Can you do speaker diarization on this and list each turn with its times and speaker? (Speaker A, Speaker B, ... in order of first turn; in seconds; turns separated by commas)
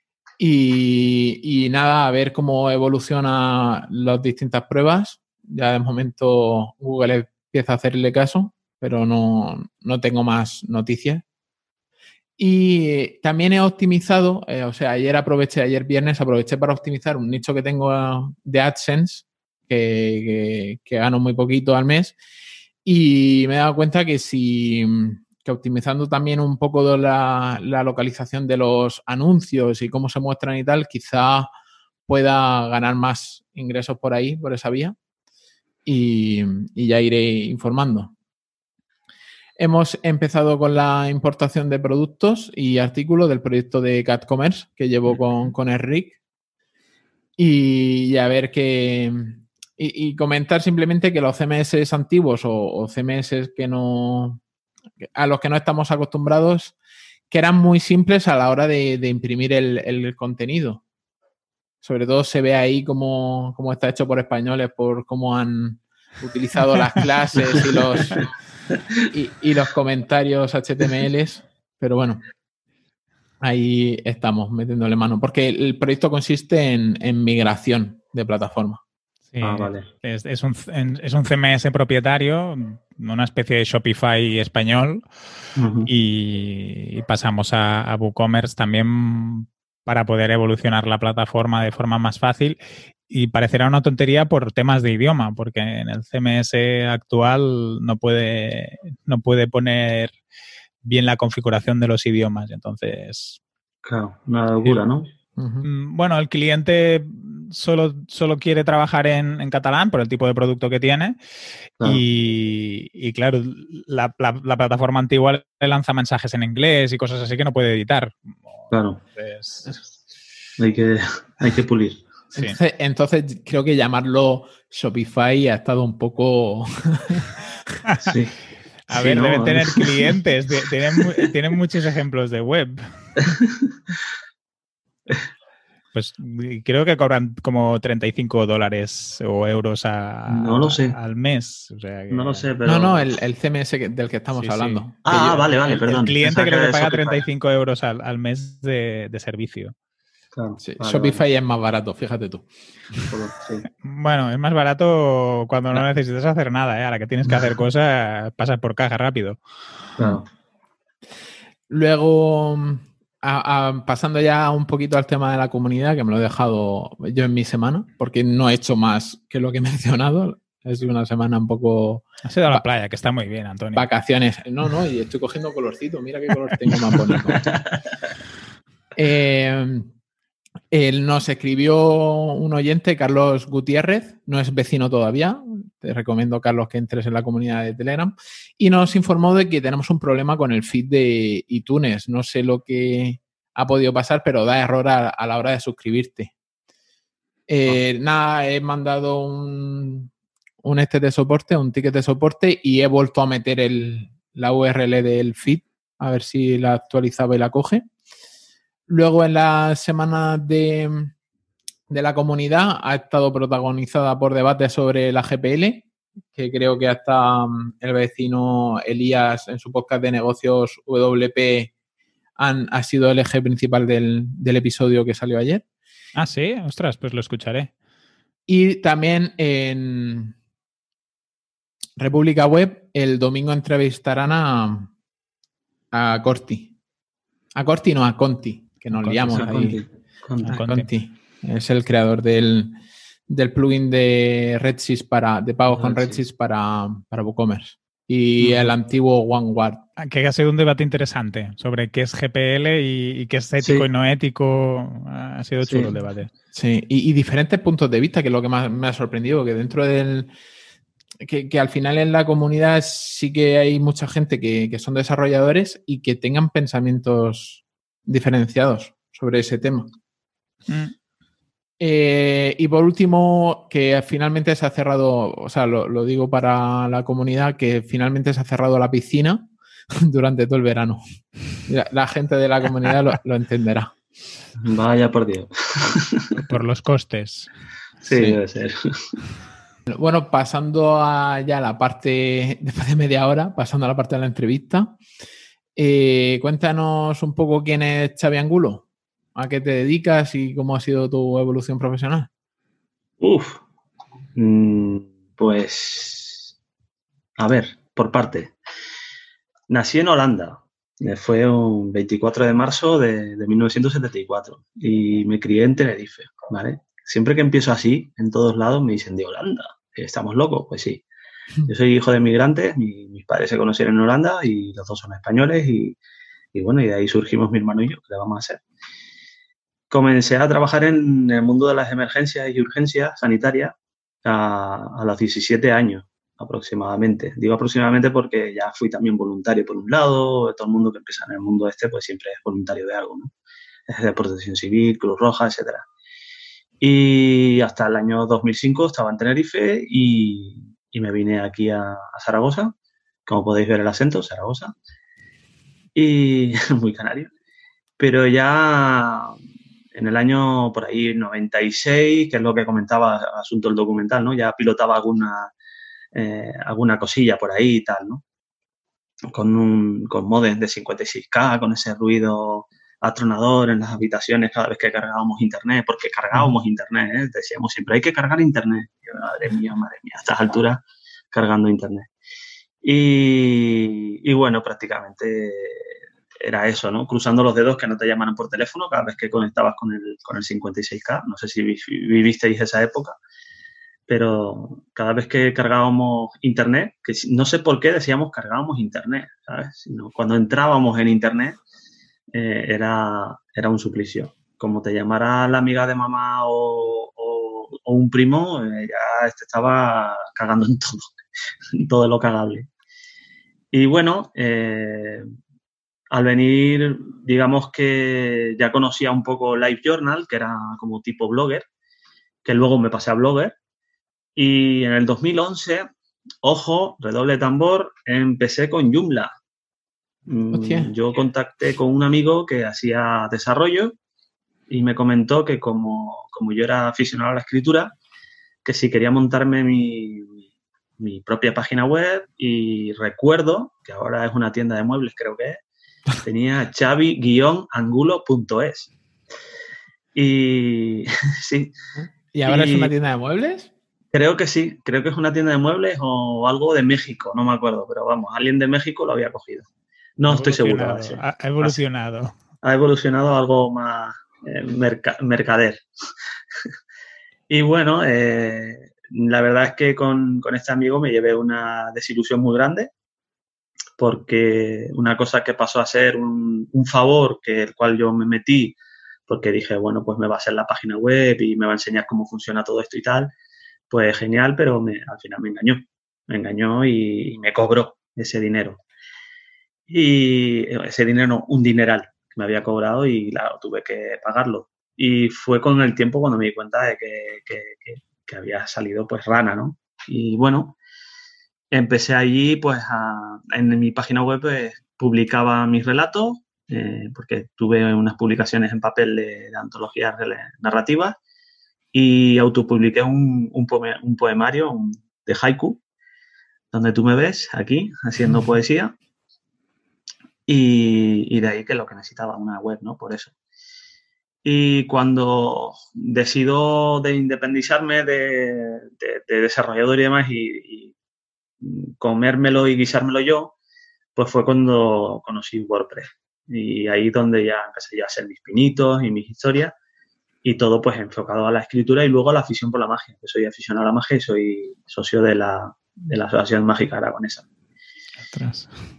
Speaker A: 0.4-11.2, Speaker A: 12.4-22.2, Speaker A: 22.8-31.5, Speaker A: 32.1-35.0, Speaker A: 35.8-38.1, Speaker A: 39.6-46.2, Speaker A: 47.4-54.4, Speaker A: 55.0-56.7, Speaker A: 57.3-60.8, Speaker A: 61.8-68.3, Speaker A: 69.0-72.2, Speaker A: 73.4-78.8, Speaker B: 79.3-85.0, Speaker C: 79.4-79.9, Speaker C: 85.5-85.9, Speaker B: 85.9-92.6, Speaker B: 93.1-100.1, Speaker B: 100.8-103.4, Speaker C: 103.8-105.1, Speaker A: 105.4-105.7, Speaker B: 105.6-111.2, Speaker B: 111.8-119.8, Speaker C: 118.7-119.0, Speaker C: 120.6-122.0, Speaker A: 122.3-127.3, Speaker B: 127.9-128.1, Speaker C: 128.0-128.3, Speaker B: 128.9-133.3, Speaker C: 128.9-129.9, Speaker C: 133.2-133.7, Speaker B: 135.9-142.5, Speaker C: 140.3-140.9, Speaker C: 142.1-143.1, Speaker A: 142.6-145.1, Speaker B: 144.3-149.7, Speaker C: 145.0-147.3, Speaker C: 150.3-151.2, Speaker A: 150.6-153.1, Speaker C: 153.1-153.6, Speaker B: 153.8-159.4, Speaker C: 160.0-160.2, Speaker A: 161.7-172.6, Speaker B: 172.2-173.9, Speaker A: 173.7-177.5, Speaker C: 177.3-177.8, Speaker A: 178.9-179.9, Speaker A: 180.7-196.3, Speaker A: 197.5-200.1, Speaker A: 200.6-207.8, Speaker A: 208.9-211.1, Speaker A: 211.9-221.7, Speaker A: 222.4-225.6, Speaker B: 226.1-227.7, Speaker A: 228.5-230.3, Speaker A: 232.0-234.9, Speaker A: 235.9-236.7, Speaker A: 237.5-239.8, Speaker B: 238.9-239.5, Speaker C: 239.3-240.7, Speaker B: 240.4-240.9, Speaker A: 240.5-249.8, Speaker C: 245.7-246.2, Speaker B: 250.0-256.3, Speaker C: 253.6-253.9, Speaker C: 255.6-255.9, Speaker A: 256.5-260.3, Speaker A: 261.2-269.9, Speaker B: 270.7-270.9, Speaker A: 271.8-281.0, Speaker A: 281.6-283.9, Speaker C: 284.6-286.3, Speaker B: 286.3-287.5, Speaker C: 288.0-289.2, Speaker A: 288.1-288.4, Speaker A: 289.9-295.0, Speaker A: 295.8-302.3, Speaker C: 303.2-303.6, Speaker C: 304.4-306.5, Speaker C: 307.4-308.5, Speaker C: 309.7-321.0, Speaker C: 321.7-326.0, Speaker C: 326.5-328.6, Speaker C: 329.9-343.3, Speaker C: 343.9-345.9, Speaker C: 346.8-352.7, Speaker C: 353.2-354.7, Speaker C: 355.9-357.3, Speaker C: 358.0-359.4, Speaker C: 359.9-365.5, Speaker C: 366.1-368.2, Speaker C: 369.3-382.1, Speaker C: 382.8-393.2, Speaker C: 394.1-401.6, Speaker C: 402.3-411.1, Speaker C: 411.7-412.7, Speaker C: 413.7-415.2, Speaker C: 416.1-421.6, Speaker C: 422.4-423.6, Speaker C: 424.4-425.9, Speaker C: 426.4-429.3, Speaker C: 430.3-433.9, Speaker A: 430.5-430.9, Speaker C: 434.7-437.9, Speaker C: 438.6-440.4, Speaker C: 441.0-445.6, Speaker C: 446.2-448.9, Speaker C: 450.1-451.7, Speaker A: 451.9-453.7, Speaker C: 452.4-452.9, Speaker C: 454.1-459.6, Speaker C: 460.2-461.8, Speaker B: 460.3-462.3, Speaker C: 462.6-465.8, Speaker C: 467.5-472.9, Speaker C: 474.0-478.8, Speaker C: 479.3-483.3, Speaker C: 483.9-488.8, Speaker C: 489.9-500.8, Speaker C: 501.7-511.2, Speaker C: 511.9-515.8, Speaker C: 516.7-518.9, Speaker C: 520.5-523.3, Speaker C: 524.4-530.9, Speaker C: 531.6-533.5, Speaker C: 534.1-539.7, Speaker C: 540.4-547.5, Speaker B: 548.3-548.7